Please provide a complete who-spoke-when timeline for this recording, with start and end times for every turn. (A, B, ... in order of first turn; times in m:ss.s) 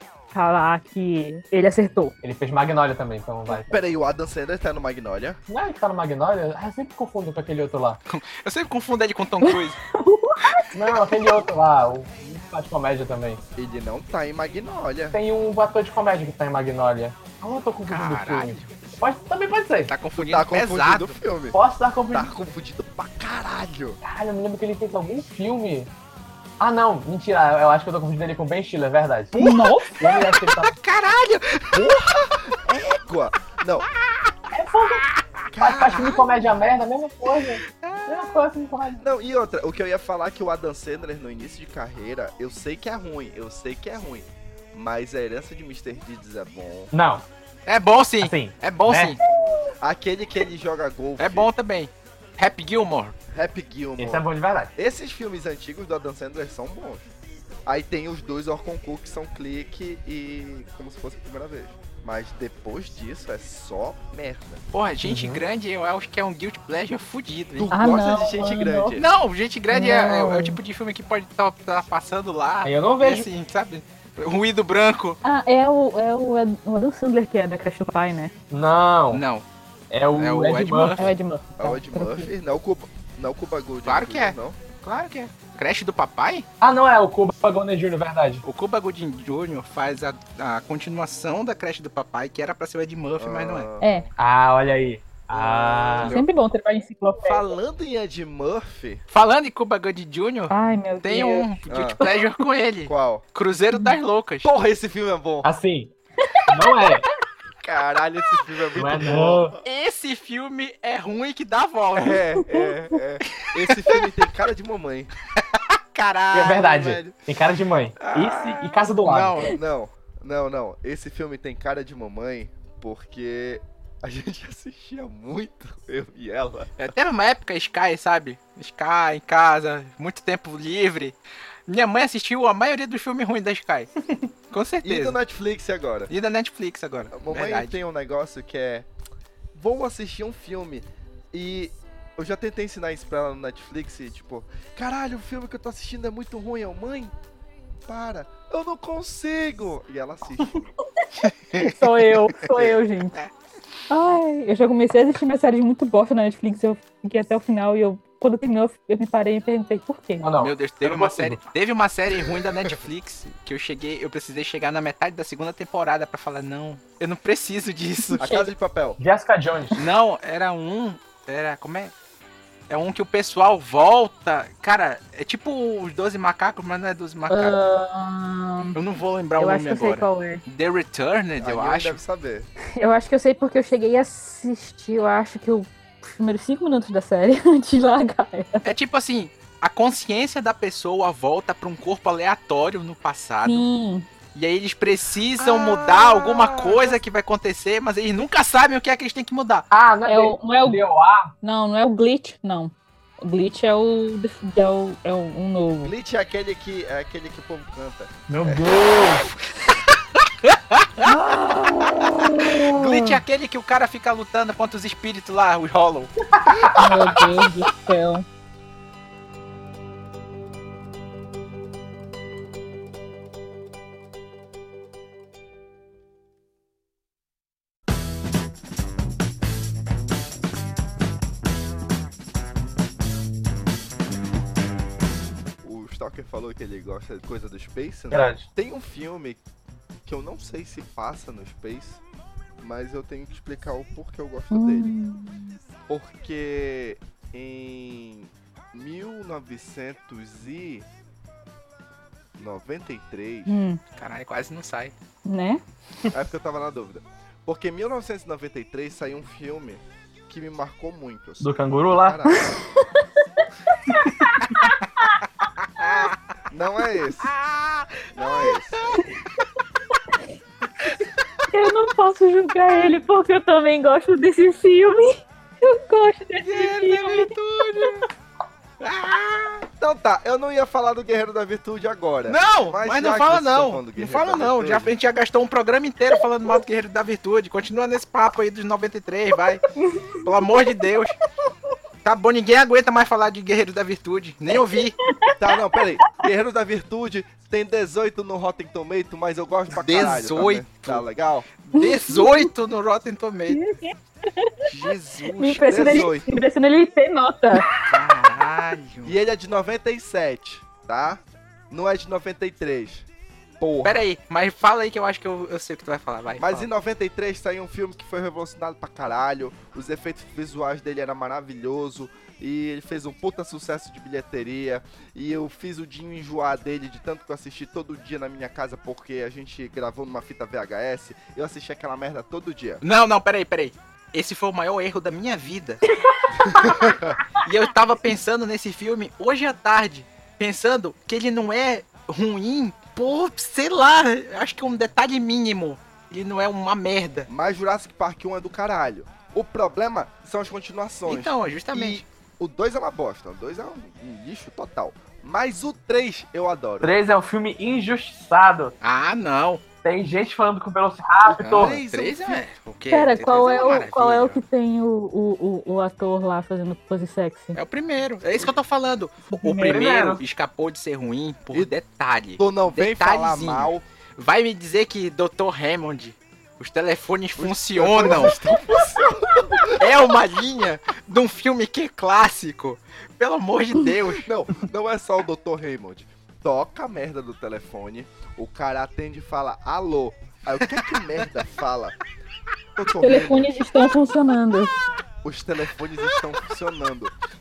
0:00.3-0:02.1 A
0:02.2-0:03.8 B
0:03.5-0:05.4 C
0:05.5-0:08.0 B
0:08.1-0:09.8 D
0:09.4-0:10.7 A
0:10.7-0:13.4 B
0:13.6-0:15.2 C
0:15.1-0:19.9 B
0:17.8-0:19.0 D
0:19.9-0:21.1 D
0:20.2-0:21.6 C
0:21.5-0:22.3 B
0:22.1-0:24.0 C
0:24.0-0:25.9 B
0:26.6-0:29.3 B
0:29.3-0:32.0 D
0:29.3-0:30.0 A
0:30.0-0:30.7 B
0:31.7-0:33.9 C
0:33.8-0:34.4 D
0:34.5-0:35.0 B
0:35.5-0:36.4 C
0:35.6-0:39.0 B
0:37.8-0:38.1 D
0:39.0-0:46.9 C
0:46.9-0:47.2 B
0:47.6-0:49.2 D
0:48.2-0:49.2 B
0:49.8-0:51.5 C
0:51.2-0:53.2 D
0:53.3-0:57.1 C
0:54.0-0:54.7 B
0:57.6-1:04.6 C
1:04.7-1:07.7 D
1:05.0-1:05.4 B
1:07.6-1:09.1 C
1:07.7-1:09.0 A
1:09.0-1:15.2 D
1:09.7-1:10.6 A
1:12.6-1:13.3 B
1:15.2-1:18.3 A
1:18.5-1:19.2 B
1:19.1-1:19.4 D
1:19.9-1:21.0 B
1:20.1-1:21.1 D
1:21.0-1:22.3 A
1:21.6-1:24.6 C
1:23.8-1:26.5 D
1:26.6-1:28.4 B
1:28.4-1:33.7 D
1:33.2-1:34.0 C
1:33.8-1:34.1 A
1:34.2-1:36.2 B
1:35.3-1:36.2 D
1:36.0-1:37.4 A
1:37.2-1:39.0 C
1:39.1-1:44.5 D
1:40.5-1:42.2 A
1:41.7-1:42.0 C
1:42.8-1:43.2 C
1:44.4-1:45.5 C
1:45.4-1:45.9 B
1:46.2-1:46.6 A
1:46.5-1:47.0 B
1:47.6-1:49.6 C
1:48.8-1:49.5 B
1:49.6-1:52.2 D
1:52.0-1:55.1 C
1:53.3-1:54.0 D
1:55.4-1:56.7 D
1:56.3-1:59.4 B
1:56.4-1:57.1 C
1:58.0-1:59.6 D
1:59.4-2:06.7 C
2:06.8-2:13.9 D
2:14.5-2:15.2 D
2:14.8-2:16.1 C
2:16.1-2:17.8 D
2:17.1-2:18.9 C
2:19.5-2:27.1 C
2:27.9-2:30.7 C
2:31.2-2:31.8 D
2:31.6-2:33.2 A
2:32.5-2:32.8 C
2:33.9-2:40.3 A
2:40.2-2:41.4 B
2:40.4-2:48.2 D
2:42.2-2:42.8 C
2:48.0-2:48.5 A
2:48.2-2:49.0 C
2:49.0-2:49.8 B
2:49.8-2:51.9 D
2:52.7-2:57.6 D
2:57.3-2:58.8 A
2:58.7-3:02.0 D
2:59.4-3:00.4 A
3:01.4-3:02.5 C
3:02.8-3:08.7 A
3:08.6-3:13.6 D
3:13.4-3:14.1 A
3:14.3-3:19.7 D
3:15.4-3:17.0 C
3:19.7-3:21.3 B
3:20.1-3:20.8 A
3:21.4-3:25.9 A
3:25.8-3:28.9 C
3:28.3-3:29.3 B
3:30.4-3:31.2 D
3:31.0-3:33.1 A
3:32.6-3:36.1 D
3:36.3-3:36.8 B
3:36.7-3:38.2 A
3:36.8-3:37.3 D
3:55.6-3:59.4 C
3:58.1-3:58.4 B
4:00.0-4:02.0 C
4:02.6-4:04.9 C
4:04.5-4:05.5 A
4:05.9-4:10.9 C
4:12.4-4:13.6 C
4:13.5-4:13.8 A
4:14.0-4:14.9 D
4:15.2-4:15.6 A
4:16.1-4:22.6 C
4:21.4-4:22.2 B
4:22.3-4:24.3 A
4:24.0-4:24.4 B
4:25.6-4:26.1 D
4:26.5-4:27.3 C
4:27.2-4:28.1 D
4:28.1-4:28.8 C
4:28.7-4:29.0 D
4:31.5-4:38.0 A
4:36.4-4:38.1 D
4:38.8-4:39.6 D
4:39.8-4:44.9 C
4:42.3-4:49.6 D
4:49.8-4:50.2 A
4:50.2-4:51.2 D
4:52.0-4:55.0 D
4:55.1-4:55.4 A
4:55.3-5:01.5 C
4:59.7-5:01.0 D
5:01.6-5:03.6 D
5:01.7-5:02.5 A
5:03.5-5:04.7 A
5:04.6-5:06.3 C
5:05.3-5:07.8 A
5:05.5-5:06.0 D
5:07.8-5:09.1 D
5:09.0-5:13.1 C
5:13.6-5:14.0 C
5:13.8-5:16.7 D
5:16.4-5:32.8 C
5:32.8-5:35.8 D
5:36.4-5:37.2 C
5:37.4-5:47.3 D
5:47.3-5:56.9 C
5:51.0-5:52.0 D
5:56.8-5:58.7 B
5:58.8-5:59.6 D
5:59.8-6:01.8 B
6:01.2-6:02.5 C
6:01.4-6:04.4 D
6:02.9-6:07.6 A
6:07.5-6:18.4 D
6:09.3-6:09.8 A
6:09.6-6:10.2 B
6:12.4-6:13.8 C
6:17.4-6:20.1 C
6:19.7-6:24.3 D
6:24.2-6:32.0 C
6:32.8-6:33.6 C
6:33.0-6:34.8 A
6:35.2-6:37.1 C